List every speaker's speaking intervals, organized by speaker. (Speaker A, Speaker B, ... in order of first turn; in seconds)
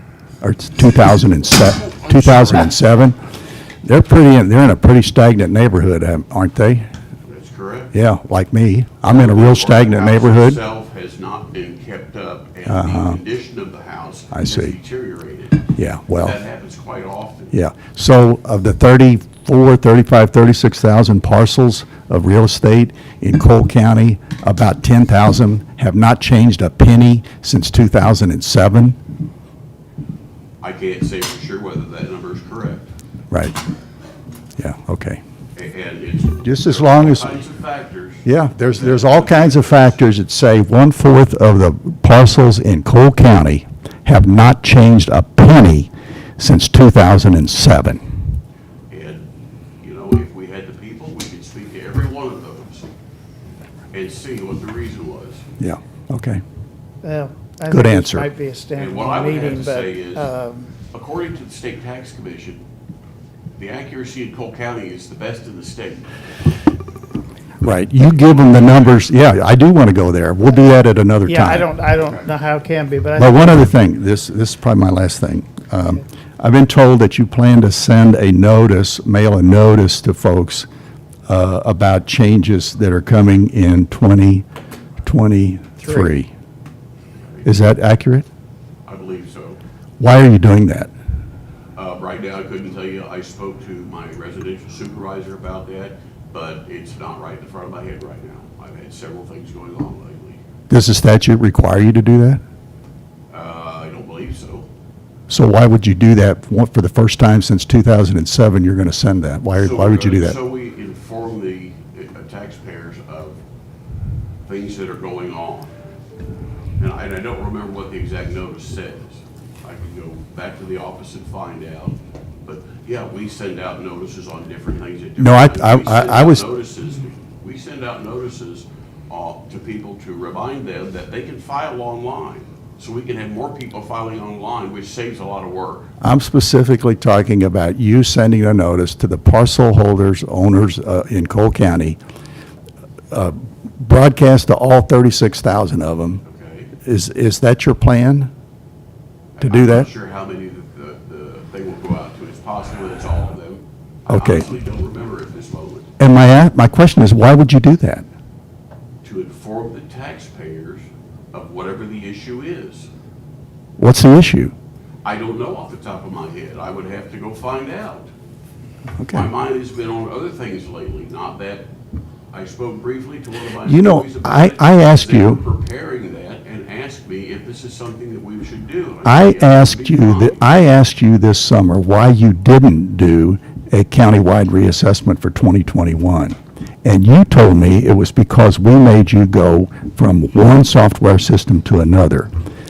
Speaker A: 0.4-3.2, 3.8-6.9, 7.9-10.6, 12.7-13.2, 14.3-14.7, 15.8-16.4, 17.5-29.0, 33.3-33.6, 34.6-35.2, 36.4-37.4, 38.2-48.0, 55.6-56.4, 57.7-58.3, 67.6-71.7, 73.2-80.7, 81.3-84.5, 85.0-86.3, 87.4-88.3, 90.0-90.9, 100.7-102.4, 105.3-110.4, 125.2-126.4, 136.0-142.0, 143.1-146.2, 146.8-148.3, 149.4-149.9, 154.1-154.4, 156.0-158.1, 163.8-164.5, 169.0-169.3, 173.6-175.4, 179.0-192.3
Speaker B: 1.8-2.8, 7.2-7.9, 9.1-17.6, 30.6-32.9, 35.5-40.0, 48.9-49.2, 49.8-52.9, 53.9-55.4, 58.8-60.3, 60.9-62.6, 63.6-66.1, 68.0-69.1, 87.2-87.5, 88.8-89.6, 91.8-100.4, 103.3-104.7, 109.6-113.4, 114.5-115.7, 116.8-135.9, 146.2-146.7, 149.4-155.9, 159.0-162.9, 165.0-168.1, 169.1-171.7, 172.3-180.5
Speaker C: 57.0-60.7, 71.2-73.6